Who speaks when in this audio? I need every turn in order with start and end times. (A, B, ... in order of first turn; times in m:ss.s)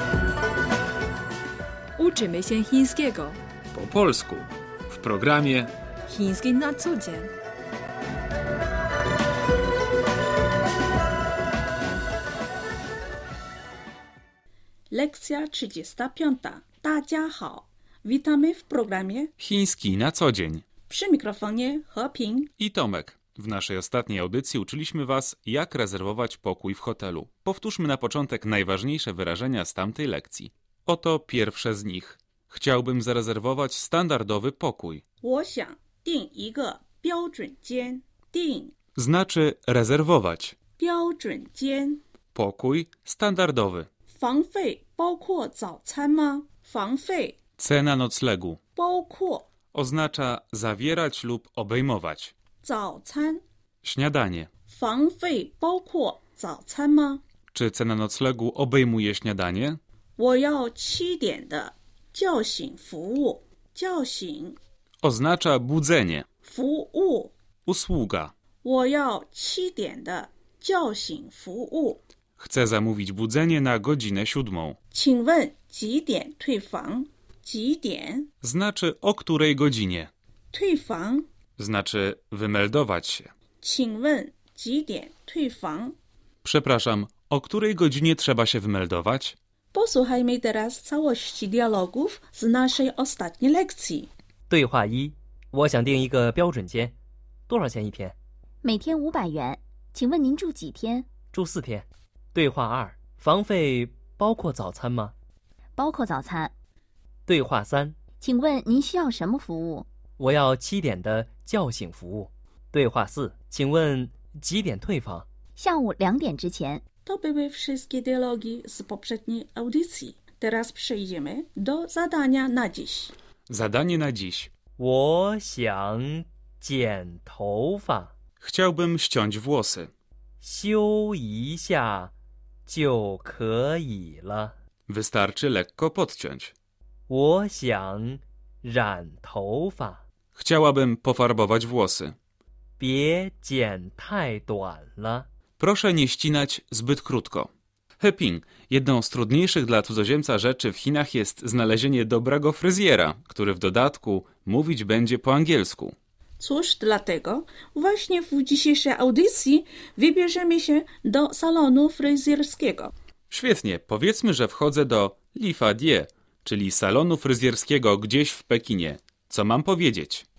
0:02.0-0:03.4 A
0:03.7-0:05.7 B
0:06.1-0:07.3 A
0:14.9-0:19.3 C
0:19.4-0:20.6 B
0:20.9-0:22.5 C
0:22.6-0:35.0 B
0:35.2-0:38.7 C
0:39.0-0:40.6 B
0:40.8-0:42.0 C
0:42.3-0:43.9 B
0:44.1-0:47.4 C
0:47.6-0:48.6 B
0:48.8-0:49.5 C
0:49.7-0:52.3 B
0:52.6-0:53.4 C
0:53.8-0:54.5 B
0:54.7-0:57.2 C
0:57.5-0:59.8 B
1:00.2-1:04.6 C
1:05.0-1:06.2 B
1:06.4-1:07.3 C
1:07.6-1:08.3 B
1:08.6-1:12.0 C
1:12.4-1:14.8 B
1:14.9-1:18.3 C
1:18.4-1:20.1 B
1:20.5-1:21.2 C
1:21.6-1:23.3 B
1:23.6-1:26.0 C
1:26.4-1:29.4 B
1:29.7-1:34.1 C
1:34.5-1:37.0 D
1:37.5-1:38.2 D
1:38.6-1:41.1 E
1:41.3-1:45.1 D
1:45.8-1:46.5 E
1:47.2-1:48.0 D
1:48.2-1:49.9 E
1:50.2-1:55.3 D
1:55.6-1:56.8 E
1:57.0-2:03.1 C
2:03.5-2:04.5 B
2:04.8-2:08.1 D
2:08.4-2:09.9 B
2:10.4-2:12.1 D
2:12.6-2:14.5 D
2:14.9-2:16.5 B
2:17.1-2:20.0 D
2:20.3-2:22.1 B
2:22.8-2:25.3 D
2:25.6-2:27.5 B
2:28.0-2:35.9 B
2:36.4-2:42.9 C
2:43.3-2:50.2 B